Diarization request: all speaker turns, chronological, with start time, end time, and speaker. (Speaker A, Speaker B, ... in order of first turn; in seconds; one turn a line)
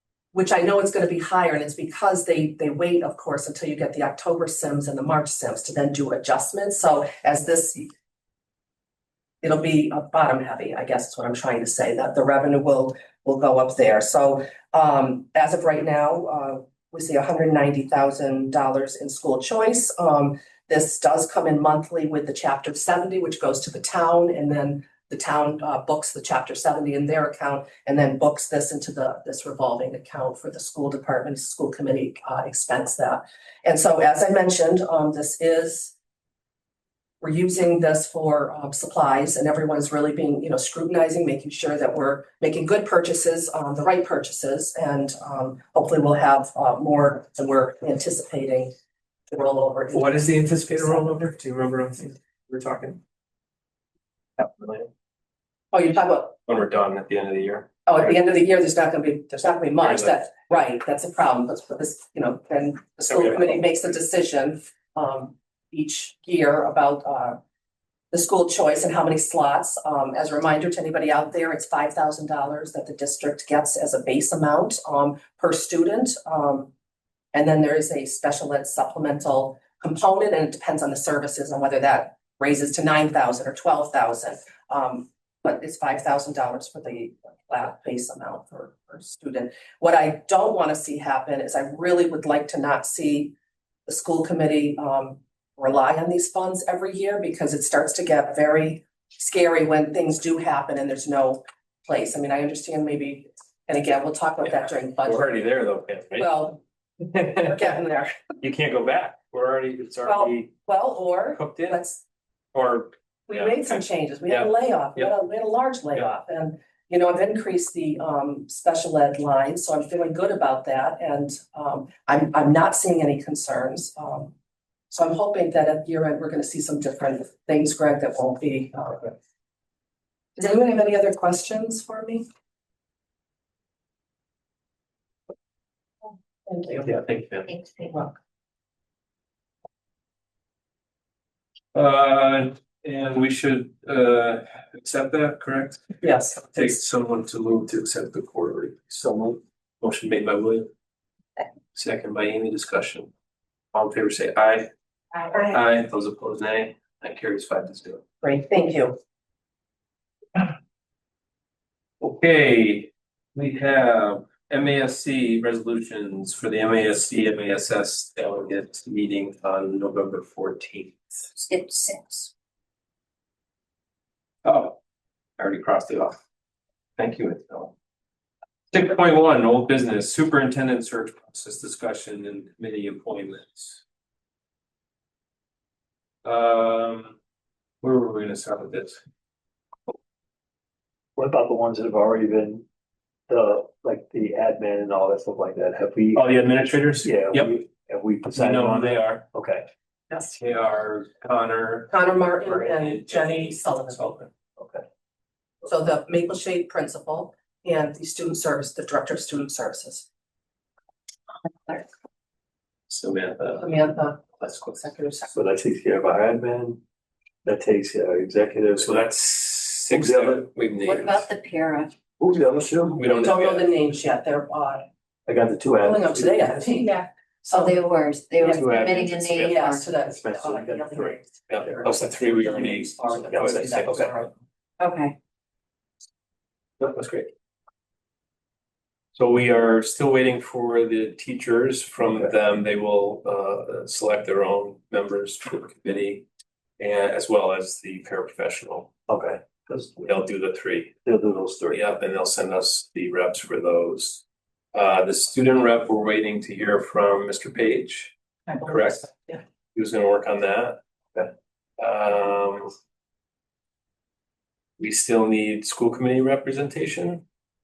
Speaker A: 0.3-7.9
Speaker A: 9.4-35.9
Speaker A: 37.2-48.7
Speaker A: 49.3-51.3
Speaker B: 49.9-53.0
Speaker B: 54.4-54.9
Speaker A: 55.7-56.4
Speaker B: 56.5-58.1
Speaker A: 57.9-67.4
Speaker B: 59.8-60.1
Speaker B: 63.1-63.5
Speaker A: 68.1-76.7
Speaker A: 77.3-93.3
Speaker A: 93.9-105.4
Speaker B: 105.0-106.3
Speaker A: 106.1-106.6
Speaker B: 107.0-107.8
Speaker A: 107.4-108.2
Speaker B: 108.4-110.5
Speaker A: 110.0-112.0
Speaker B: 111.3-111.8
Speaker B: 112.5-115.1
Speaker A: 113.3-124.3
Speaker A: 124.9-129.1
Speaker A: 130.4-132.2
Speaker A: 136.5-137.0
Speaker B: 136.9-137.5
Speaker C: 137.5-137.9
Speaker B: 141.7-145.8
Speaker A: 146.0-146.8
Speaker B: 146.5-150.7
Speaker B: 151.7-153.1
Speaker B: 153.7-154.7
Speaker B: 155.4-158.0
Speaker A: 158.2-159.0
Speaker B: 162.0-171.4
Speaker C: 171.4-172.3
Speaker B: 174.4-174.8
Speaker B: 175.4-176.2
Speaker B: 177.0-177.7
Speaker B: 178.7-183.8
Speaker B: 186.2-187.2
Speaker B: 187.8-189.0
Speaker D: 191.2-192.6
Speaker D: 193.3-196.3
Speaker B: 196.1-197.5
Speaker D: 197.0-199.7
Speaker B: 198.3-199.2
Speaker B: 200.3-204.3
Speaker A: 201.9-204.1
Speaker D: 204.6-204.8
Speaker A: 205.6-210.1
Speaker B: 212.9-213.7
Speaker A: 213.6-215.3
Speaker B: 214.3-214.8
Speaker D: 215.3-216.8
Speaker D: 217.4-219.1
Speaker B: 218.8-221.2
Speaker D: 219.9-220.5
Speaker C: 220.8-221.9
Speaker D: 222.2-223.2
Speaker B: 223.0-223.7
Speaker A: 223.2-224.9
Speaker D: 225.3-226.6
Speaker A: 225.8-227.8
Speaker C: 227.5-229.9
Speaker A: 228.4-234.3
Speaker B: 228.6-229.6
Speaker D: 230.1-231.2
Speaker B: 231.5-234.2
Speaker D: 233.3-234.1
Speaker C: 234.8-235.2
Speaker B: 236.8-237.3
Speaker B: 239.1-246.2
Speaker B: 246.8-248.9
Speaker D: 249.1-250.0
Speaker B: 250.0-250.9
Speaker D: 251.0-251.8
Speaker B: 251.7-260.8
Speaker A: 258.5-259.4
Speaker B: 261.8-262.7
Speaker B: 264.8-267.2